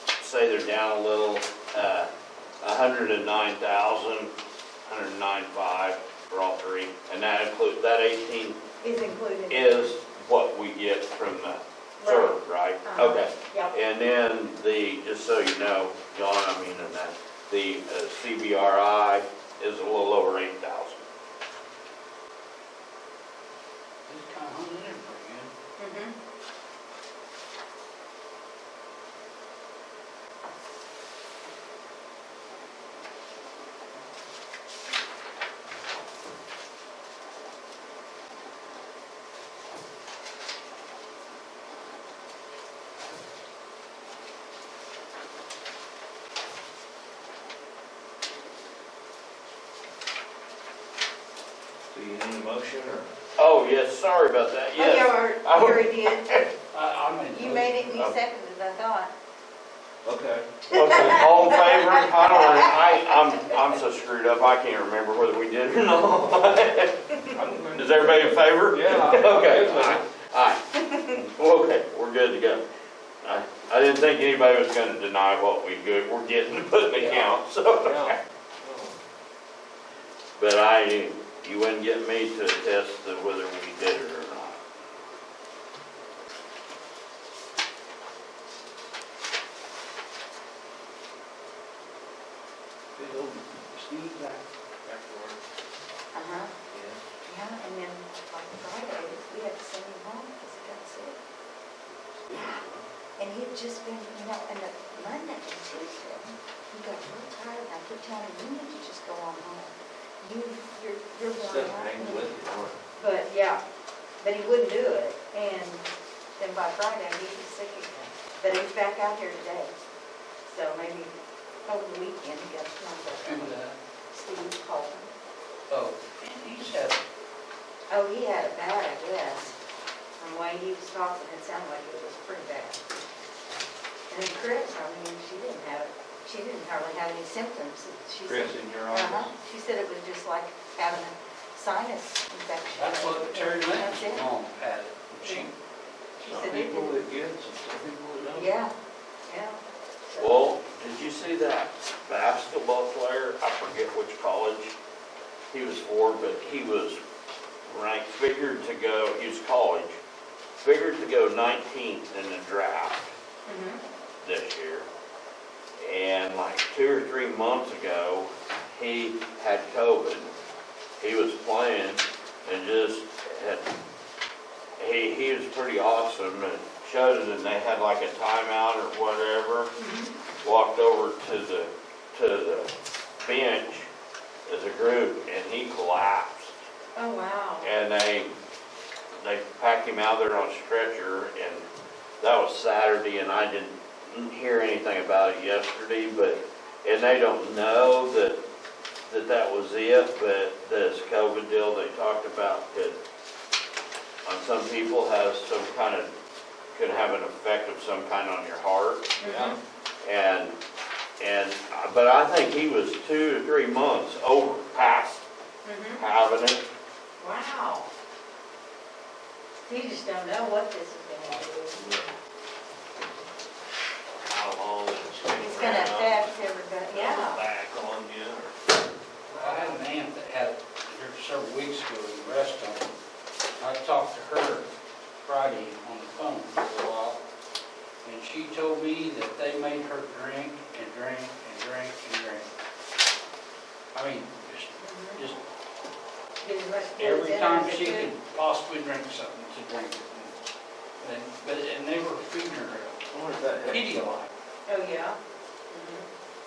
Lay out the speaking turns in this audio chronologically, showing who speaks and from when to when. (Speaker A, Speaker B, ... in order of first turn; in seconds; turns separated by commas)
Speaker A: 0.2-2.1, Speaker A: 2.6-4.3, Speaker A: 4.9-8.6, Speaker B: 8.8-9.9, Speaker A: 9.5-21.1, Speaker B: 12.0-13.7, Speaker C: 24.1-25.5, Speaker B: 25.8-26.1, Speaker D: 51.9-53.1, Speaker A: 53.4-56.5, Speaker B: 54.8-56.5, Speaker C: 56.7-57.9, Speaker B: 57.3-59.1, Speaker D: 60.0-60.6, Speaker A: 60.7-67.2, Speaker B: 60.7-62.8, Speaker D: 67.3-70.1, Speaker A: 67.8-72.7, Speaker A: 73.2-78.2, Speaker C: 77.0-77.3, Speaker D: 77.8-79.0, Speaker A: 80.4-84.6, Speaker D: 93.0-93.4, Speaker C: 93.6-94.4, Speaker D: 94.8-95.4, Speaker B: 96.1-96.5, Speaker D: 96.7-97.0, Speaker B: 97.2-101.2, Speaker D: 102.2-102.8, Speaker B: 103.2-112.3, Speaker D: 111.4-112.8, Speaker B: 113.0-113.6, Speaker B: 114.2-115.9, Speaker B: 116.4-119.7, Speaker B: 120.5-121.1, Speaker B: 121.7-123.6, Speaker C: 123.2-123.8, Speaker B: 124.1-125.1, Speaker C: 125.7-127.0, Speaker B: 127.9-129.6, Speaker B: 130.2-132.8, Speaker B: 134.1-144.3, Speaker D: 138.3-139.3, Speaker C: 142.8-145.5, Speaker B: 145.2-145.5, Speaker B: 146.2-147.0, Speaker D: 146.2-148.5, Speaker B: 148.3-148.7, Speaker B: 149.3-150.4, Speaker A: 150.2-154.7, Speaker A: 155.5-157.0, Speaker A: 157.7-160.0, Speaker A: 160.6-163.1, Speaker B: 163.5-163.8, Speaker A: 164.2-164.9, Speaker A: 165.8-170.3, Speaker A: 171.0-173.7, Speaker A: 174.8-179.7, Speaker B: 179.8-180.1, Speaker A: 180.4-182.7, Speaker A: 183.2-183.9, Speaker A: 184.5-186.5, Speaker B: 186.9-187.7, Speaker A: 187.6-188.3, Speaker A: 189.2-191.6, Speaker A: 192.2-198.4, Speaker A: 199.1-203.0, Speaker A: 204.3-206.1, Speaker A: 206.7-209.2, Speaker B: 209.2-209.6, Speaker D: 209.2-209.6, Speaker A: 210.0-210.6, Speaker A: 211.2-215.2, Speaker B: 215.6-216.0, Speaker A: 216.0-216.6, Speaker B: 217.2-217.9, Speaker B: 219.6-221.8, Speaker D: 221.8-222.2, Speaker D: 224.3-226.3, Speaker B: 225.3-227.4, Speaker D: 226.9-228.6, Speaker C: 229.3-232.9, Speaker C: 233.6-234.7, Speaker C: 235.2-237.2, Speaker C: 238.0-242.5, Speaker C: 243.9-245.4, Speaker B: 244.8-245.2, Speaker B: 246.4-248.1, Speaker C: 247.0-250.5, Speaker C: 251.0-253.0, Speaker D: 253.1-254.2, Speaker C: 253.7-254.3, Speaker B: 254.7-255.2, Speaker B: 255.7-256.1